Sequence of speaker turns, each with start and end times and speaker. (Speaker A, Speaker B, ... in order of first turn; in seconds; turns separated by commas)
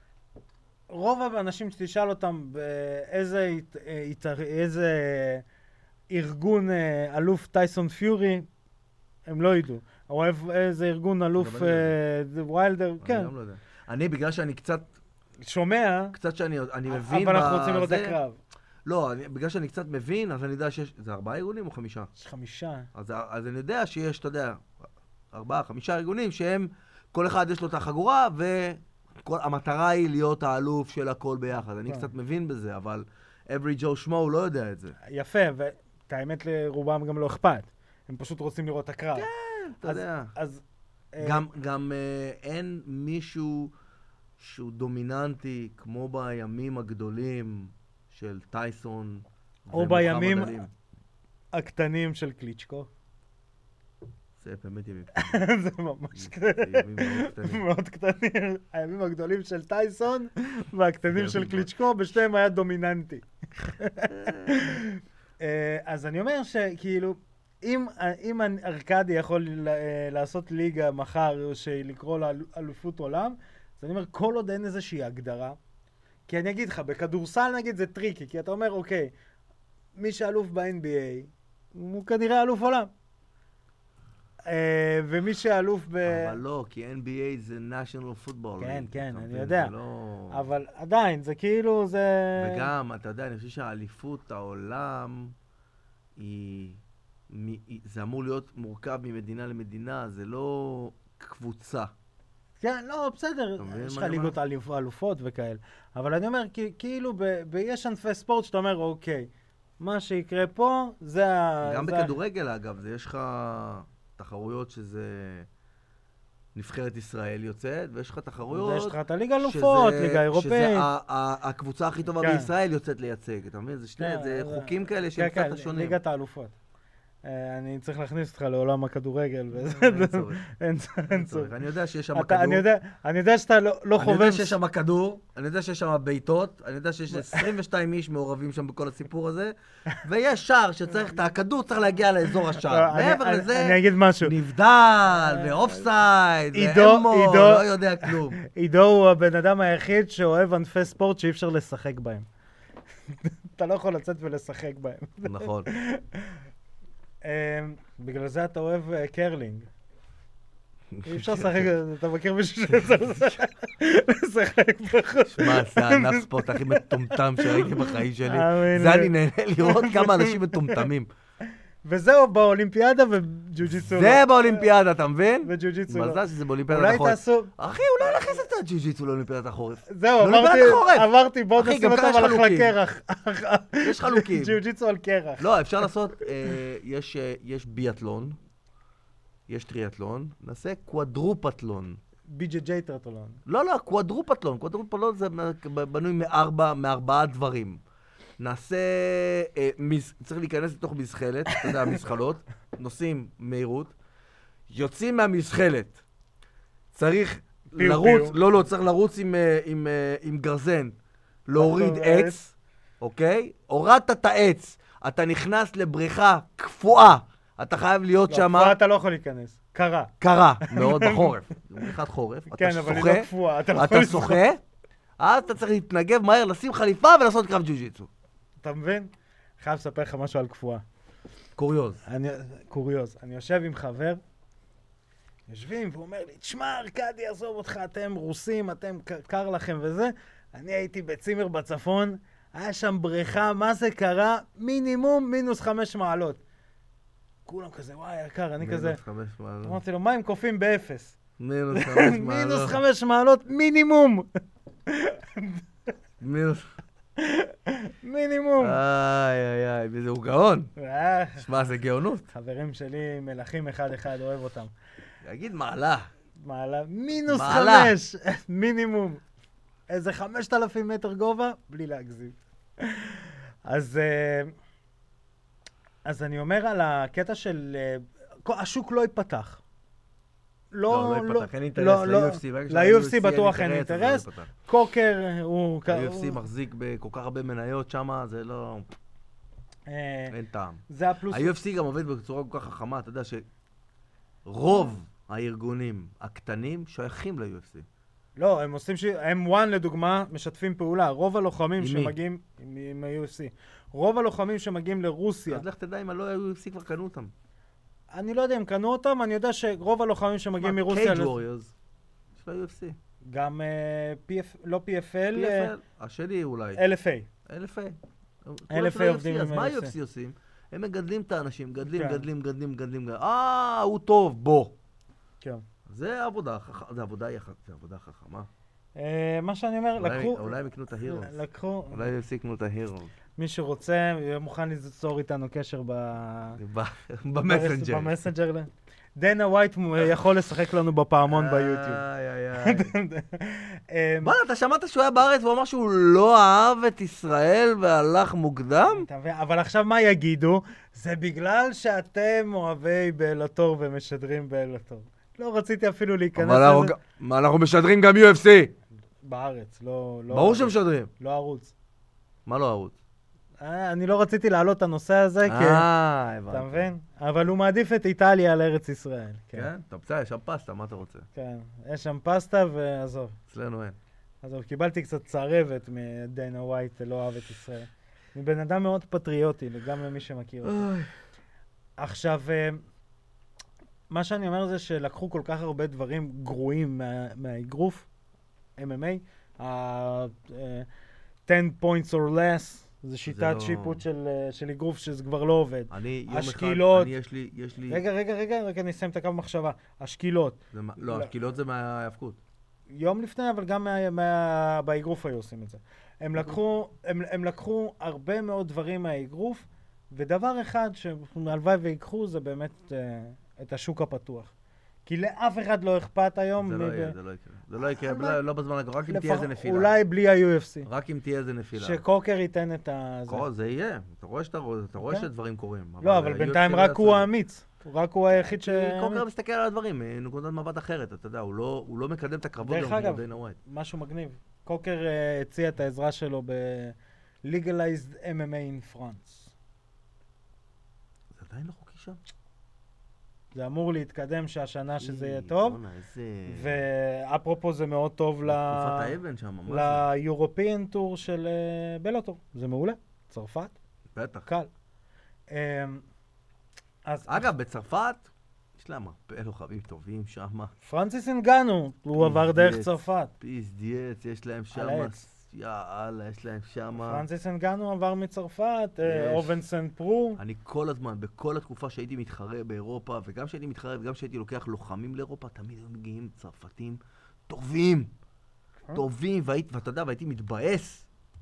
Speaker A: 0.9-5.5, Speaker A: 6.1-8.5, Speaker A: 9.3-13.3, Speaker B: 11.4-11.9, Speaker B: 13.0-14.9, Speaker A: 15.4-16.2, Speaker B: 16.1-18.2, Speaker A: 16.9-18.4, Speaker B: 18.9-22.1, Speaker A: 22.2-22.9, Speaker B: 22.9-24.7, Speaker B: 25.3-35.0, Speaker A: 35.0-39.3, Speaker B: 39.1-40.3, Speaker A: 39.8-40.6, Speaker A: 41.1-41.5, Speaker B: 41.2-43.7, Speaker B: 44.4-50.7, Speaker A: 49.7-50.6, Speaker A: 51.5-52.9, Speaker B: 54.4-55.4, Speaker A: 55.1-75.6, Speaker B: 56.1-57.6, Speaker B: 61.1-61.7, Speaker B: 64.1-64.7, Speaker A: 76.3-79.1, Speaker A: 80.0-82.9, Speaker A: 84.5-86.4, Speaker B: 86.0-90.5, Speaker A: 88.6-89.7, Speaker A: 90.3-92.7, Speaker B: 92.4-95.3, Speaker B: 96.2-101.9, Speaker A: 102.6-109.3, Speaker B: 103.6-104.4, Speaker A: 109.8-112.2, Speaker B: 111.6-115.5, Speaker B: 116.5-126.0, Speaker A: 118.5-120.9, Speaker A: 122.2-122.5, Speaker A: 124.0-126.5, Speaker A: 127.2-131.5, Speaker B: 129.5-130.4, Speaker B: 131.1-132.7, Speaker A: 132.1-134.6, Speaker B: 134.0-148.4, Speaker A: 137.1-137.5, Speaker A: 142.4-144.4, Speaker A: 145.1-145.8, Speaker A: 146.5-152.3, Speaker A: 153.1-156.4, Speaker B: 155.2-155.7, Speaker A: 157.2-159.7, Speaker B: 160.9-161.7, Speaker A: 161.0-170.9, Speaker B: 165.3-171.1, Speaker A: 171.8-174.7, Speaker B: 173.8-182.8, Speaker A: 175.4-177.5, Speaker A: 179.9-185.9, Speaker B: 183.8-184.6, Speaker B: 185.4-188.4, Speaker B: 189.5-192.0, Speaker A: 192.3-193.4, Speaker B: 193.5-197.8, Speaker B: 198.4-203.9, Speaker A: 201.5-201.8, Speaker B: 204.7-206.0, Speaker B: 206.9-218.8, Speaker A: 207.7-208.4, Speaker A: 211.6-212.4, Speaker A: 218.3-221.9, Speaker B: 220.2-224.6, Speaker A: 222.5-224.4, Speaker B: 225.2-228.1, Speaker A: 228.6-230.8, Speaker B: 231.6-232.0, Speaker A: 232.1-234.2, Speaker A: 235.5-246.4, Speaker A: 247.5-249.0, Speaker B: 248.6-249.8, Speaker A: 249.6-251.2, Speaker B: 251.4-252.8, Speaker A: 251.7-254.3, Speaker A: 254.9-255.6, Speaker B: 256.2-256.8, Speaker A: 257.2-258.8, Speaker B: 258.6-260.7, Speaker A: 260.8-261.5, Speaker B: 261.4-262.3, Speaker A: 262.3-264.7, Speaker B: 265.2-266.1, Speaker A: 266.4-269.2, Speaker B: 267.3-267.9, Speaker A: 269.9-274.5, Speaker A: 276.1-279.6, Speaker A: 280.7-286.4, Speaker B: 280.9-284.5, Speaker B: 285.9-288.9, Speaker A: 289.9-290.4, Speaker B: 290.3-293.4, Speaker A: 290.9-291.5, Speaker B: 294.4-297.9, Speaker A: 298.4-305.6, Speaker B: 301.8-302.2, Speaker B: 305.5-307.3, Speaker A: 308.1-311.3, Speaker B: 310.6-311.7, Speaker B: 312.4-313.0, Speaker A: 313.2-315.7, Speaker B: 315.3-316.8, Speaker A: 316.8-317.3, Speaker B: 317.5-324.8, Speaker A: 318.7-319.9, Speaker A: 321.9-322.2, Speaker B: 325.9-328.5, Speaker A: 329.0-332.1, Speaker B: 330.0-331.4, Speaker B: 331.9-333.1, Speaker A: 333.4-336.6, Speaker B: 336.6-338.2, Speaker A: 337.4-342.0, Speaker B: 341.3-342.9, Speaker A: 342.6-344.4, Speaker B: 344.2-349.1, Speaker A: 348.9-356.9, Speaker B: 356.4-358.8, Speaker A: 359.2-361.7, Speaker B: 360.3-361.1, Speaker B: 362.5-363.0, Speaker A: 363.6-365.9, Speaker B: 365.4-366.9, Speaker A: 366.5-369.7, Speaker B: 369.5-371.3, Speaker A: 371.4-373.4, Speaker B: 373.5-374.0, Speaker A: 374.4-380.9, Speaker B: 380.6-381.1, Speaker A: 382.0-382.8, Speaker A: 384.1-388.1, Speaker A: 388.8-390.9, Speaker A: 391.5-397.1, Speaker B: 393.2-394.0, Speaker B: 395.9-398.0, Speaker A: 397.9-401.3, Speaker B: 400.7-402.4, Speaker A: 402.9-414.5, Speaker A: 415.1-417.1, Speaker B: 416.6-419.9, Speaker A: 417.8-418.4, Speaker A: 419.1-420.9, Speaker B: 420.9-422.0, Speaker A: 421.8-423.5, Speaker B: 423.3-427.3, Speaker A: 425.0-425.3, Speaker A: 426.0-429.2, Speaker B: 428.4-433.6, Speaker A: 432.6-439.5, Speaker B: 441.3-442.2, Speaker A: 443.6-445.8, Speaker B: 445.0-446.8, Speaker A: 446.5-449.1, Speaker B: 448.5-450.1, Speaker A: 449.7-453.8, Speaker B: 454.1-454.5, Speaker A: 455.5-456.1, Speaker A: 457.1-457.5, Speaker B: 457.3-460.7, Speaker A: 460.8-463.3, Speaker B: 462.2-467.2, Speaker A: 464.7-465.2, Speaker A: 467.0-470.4, Speaker B: 469.1-469.6, Speaker B: 470.4-478.1, Speaker B: 478.9-481.1